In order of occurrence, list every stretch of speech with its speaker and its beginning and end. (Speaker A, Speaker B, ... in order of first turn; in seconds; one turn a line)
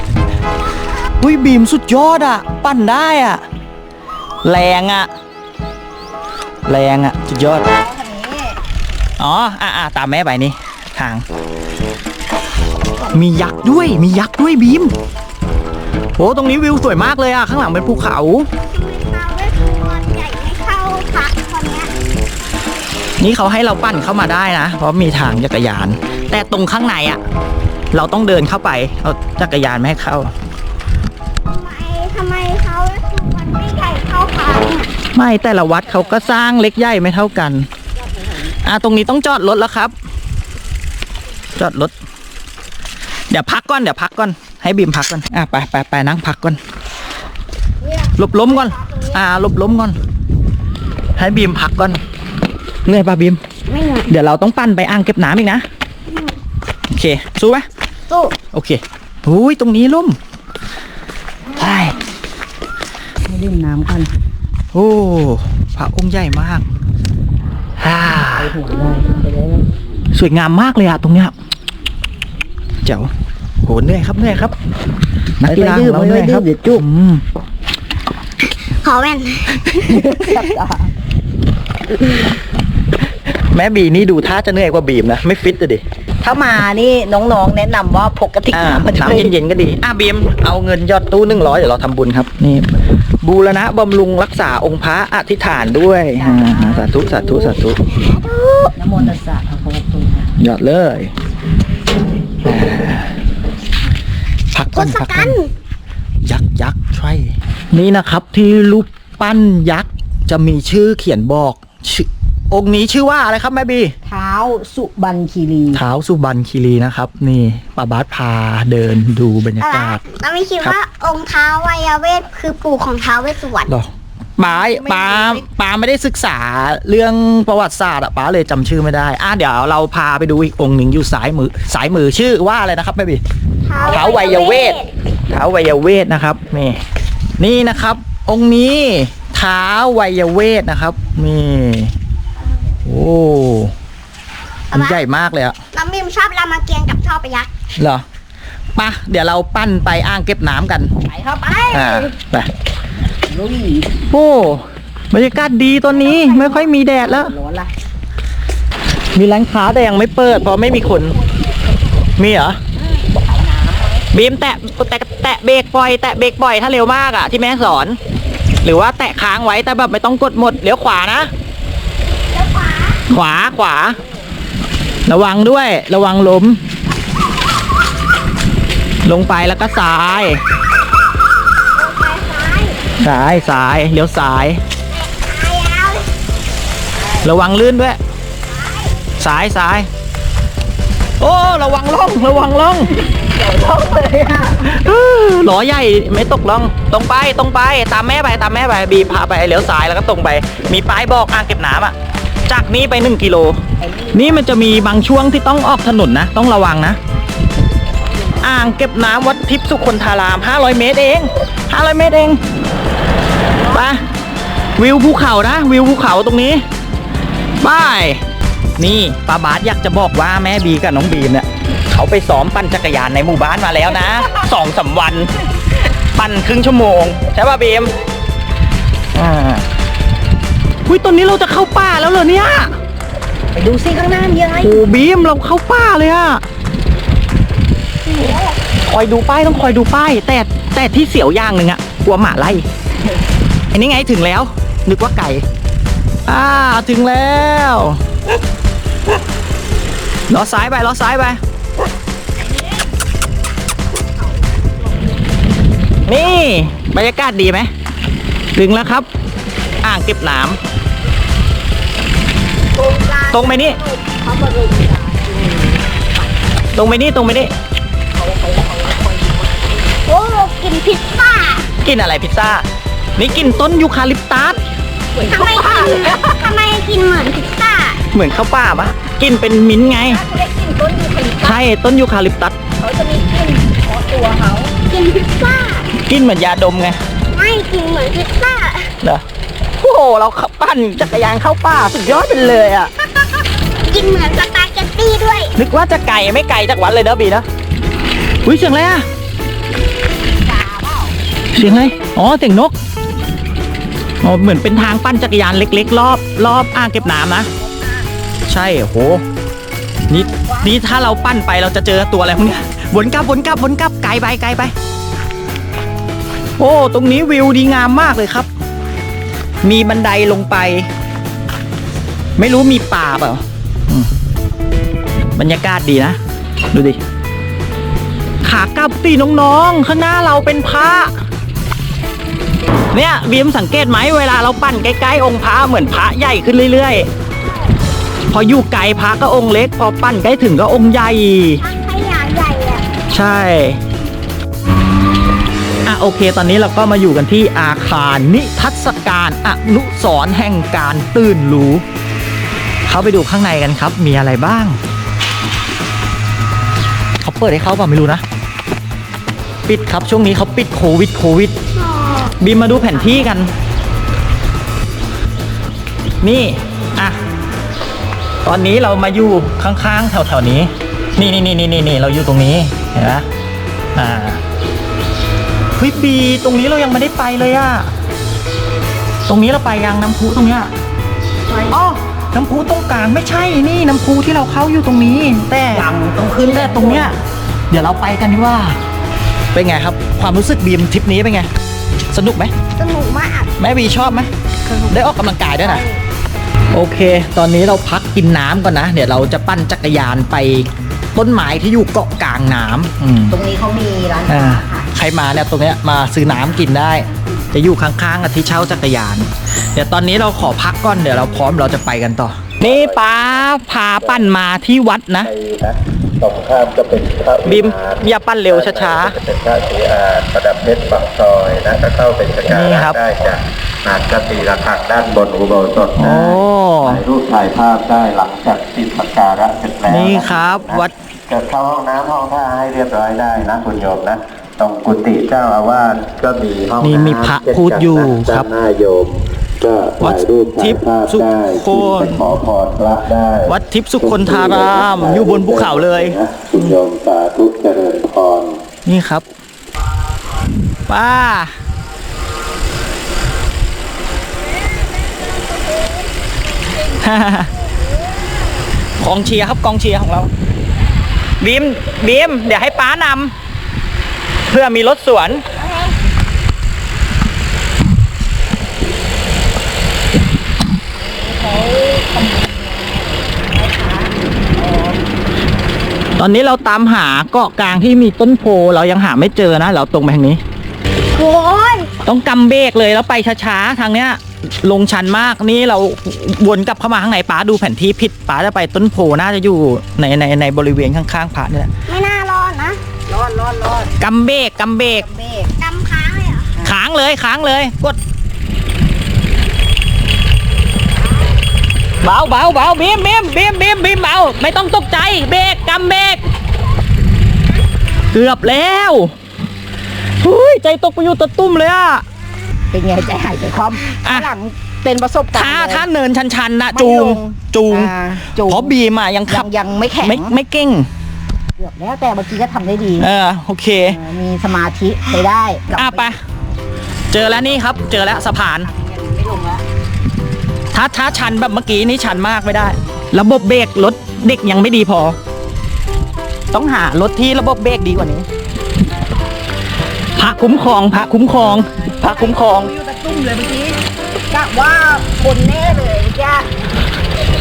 Speaker A: 1.2-3.4
Speaker A: 4.4-5.1
Speaker A: 6.7-7.7
Speaker B: 7.6-8.6
Speaker A: 9.2-11.2
Speaker A: 13.1-14.9
Speaker A: 16.2-18.5
Speaker C: 18.7-21.9
Speaker A: 23.2-27.2
Speaker A: 27.9-30.3
Speaker C: 31.5-34.9
Speaker A: 35.1-37.7
Speaker B: 38.0-38.5
Speaker A: 38.6-39.9
Speaker A: 41.5-41.9
Speaker A: 43.3-46.6
Speaker C: 47.9-49.0
Speaker A: 48.1-50.0
Speaker A: 51.2-52.0
Speaker A: 52.9-53.4
Speaker C: 53.7-54.1
Speaker A: 54.1-55.6
Speaker A: 56.9-57.6
Speaker C: 58.1-58.4
Speaker A: 58.5-60.2
Speaker A: 61.5-62.0
Speaker B: 63.2-64.1
Speaker A: 64.7-66.6
Speaker A: 67.8-68.5
Speaker B: 68.2-69.7
Speaker A: 70.1-71.3
Speaker A: 72.8-73.1
Speaker A: 73.6-74.5
Speaker A: 75.4-77.2
Speaker B: 75.4-76.8
Speaker C: 78.8-79.8
Speaker B: 79.7-80.9
Speaker A: 83.3-85.8
Speaker B: 86.2-89.3
Speaker A: 88.5-97.8
Speaker B: 96.2-97.5
Speaker B: 98.7-100.3
Speaker A: 100.4-101.1
Speaker A: 102.4-103.1
Speaker A: 104.5-105.4
Speaker C: 104.7-105.5
Speaker A: 106.2-113.9
Speaker B: 114.0-115.8
Speaker A: 115.7-120.0
Speaker C: 119.6-123.7
Speaker A: 123.7-133.2
Speaker B: 124.6-125.4
Speaker C: 133.7-134.9
Speaker A: 133.9-136.8
Speaker A: 137.4-141.9
Speaker A: 142.8-143.7
Speaker C: 144.7-145.0
Speaker A: 144.7-145.6
Speaker C: 145.7-147.5
Speaker A: 147.8-148.0
Speaker A: 148.8-150.9
Speaker B: 151.0-151.8
Speaker A: 151.7-152.5
Speaker C: 151.7-152.0
Speaker B: 153.2-153.9
Speaker A: 154.1-157.3
Speaker B: 155.9-157.7
Speaker A: 159.1-161.2
Speaker A: 162.2-162.6
Speaker B: 162.8-164.1
Speaker A: 164.1-168.0
Speaker A: 168.6-171.3
Speaker C: 172.3-173.0
Speaker A: 173.1-174.0
Speaker A: 175.1-176.6
Speaker A: 179.0-180.4
Speaker C: 181.8-182.8
Speaker A: 183.0-184.6
Speaker C: 184.9-186.1
Speaker A: 187.2-188.0
Speaker C: 188.5-189.0
Speaker A: 189.2-189.9
Speaker A: 191.2-192.9
Speaker B: 193.1-194.8
Speaker A: 194.6-201.9
Speaker A: 202.5-203.6
Speaker B: 203.8-204.5
Speaker A: 204.1-207.0
Speaker A: 208.4-212.4
Speaker A: 213.7-214.0
Speaker A: 214.8-216.6
Speaker A: 217.6-218.2
Speaker A: 218.8-225.3
Speaker A: 226.1-227.9
Speaker A: 229.1-229.6
Speaker A: 230.8-232.7
Speaker B: 233.5-234.8
Speaker A: 234.6-236.4
Speaker A: 238.2-242.7
Speaker A: 243.7-245.4
Speaker A: 246.2-248.0
Speaker A: 250.3-251.4
Speaker A: 256.1-257.7
Speaker A: 258.5-259.1
Speaker A: 259.8-260.6
Speaker B: 262.8-266.1
Speaker A: 263.3-263.8
Speaker A: 266.7-267.5
Speaker B: 268.1-269.6
Speaker C: 270.1-271.7
Speaker A: 271.8-274.6
Speaker B: 275.1-276.4
Speaker C: 275.3-278.0
Speaker A: 278.1-280.2
Speaker B: 279.8-281.6
Speaker A: 281.4-282.6
Speaker B: 282.8-284.7
Speaker C: 284.9-285.9
Speaker A: 286.1-287.0
Speaker C: 287.3-288.9
Speaker A: 289.8-292.9
Speaker C: 293.9-295.6
Speaker A: 295.6-297.4
Speaker A: 298.4-299.1
Speaker B: 300.4-301.2
Speaker A: 301.5-302.7
Speaker A: 304.2-307.5
Speaker B: 307.6-307.9
Speaker A: 308.5-309.2
Speaker A: 310.1-314.7
Speaker B: 310.1-310.8
Speaker A: 316.6-318.5
Speaker A: 319.6-320.9
Speaker A: 322.4-324.1
Speaker A: 325.3-326.2
Speaker A: 326.7-327.0
Speaker A: 328.4-331.1
Speaker A: 332.9-337.1
Speaker A: 338.3-341.6
Speaker C: 341.6-342.9
Speaker A: 343.1-343.8
Speaker A: 345.8-351.8
Speaker A: 352.9-354.8
Speaker A: 357.2-358.2
Speaker A: 359.7-361.5
Speaker C: 361.8-362.3
Speaker A: 362.4-363.5
Speaker A: 366.2-367.2
Speaker A: 368.4-373.2
Speaker A: 373.9-374.4
Speaker A: 375.8-377.9
Speaker A: 379.3-380.7
Speaker B: 381.5-381.7
Speaker A: 381.7-385.9
Speaker B: 385.7-387.1
Speaker A: 386.4-387.1
Speaker A: 387.7-388.8
Speaker A: 389.5-391.5
Speaker A: 392.1-392.5
Speaker C: 392.8-393.5
Speaker A: 393.6-394.3
Speaker B: 394.7-395.8
Speaker A: 394.9-395.8
Speaker A: 396.7-403.4
Speaker B: 403.3-404.9
Speaker A: 404.3-415.3
Speaker D: 412.6-412.9
Speaker D: 415.2-448.6
Speaker A: 417.4-419.2
Speaker A: 422.4-423.0
Speaker A: 426.0-427.0
Speaker A: 429.8-430.9
Speaker A: 436.8-438.5
Speaker A: 440.0-442.3
Speaker A: 443.4-446.8
Speaker A: 448.8-449.2
Speaker A: 450.9-451.5
Speaker A: 456.9-457.5
Speaker A: 459.0-460.3
Speaker A: 461.4-463.3
Speaker A: 464.5-465.4
Speaker B: 471.0-475.0
Speaker A: 476.1-480.4
Speaker C: 481.1-481.9
Speaker A: 482.0-491.7
Speaker C: 491.9-492.8
Speaker B: 493.1-493.9
Speaker A: 494.0-495.1
Speaker B: 494.9-495.5
Speaker C: 495.6-496.5
Speaker A: 496.6-498.0
Speaker A: 502.0-506.2
Speaker A: 508.1-509.1
Speaker A: 510.2-512.0
Speaker B: 512.7-515.9
Speaker A: 514.0-514.3
Speaker A: 515.3-519.5
Speaker B: 516.7-518.7
Speaker B: 519.3-520.4
Speaker A: 520.0-520.9
Speaker B: 521.5-523.1
Speaker A: 523.0-524.0
Speaker B: 523.8-526.1
Speaker A: 525.7-526.2
Speaker A: 527.1-528.7
Speaker B: 527.9-529.6
Speaker A: 530.7-535.2
Speaker A: 536.5-538.2
Speaker A: 540.2-542.7
Speaker B: 542.0-543.8
Speaker B: 544.3-546.5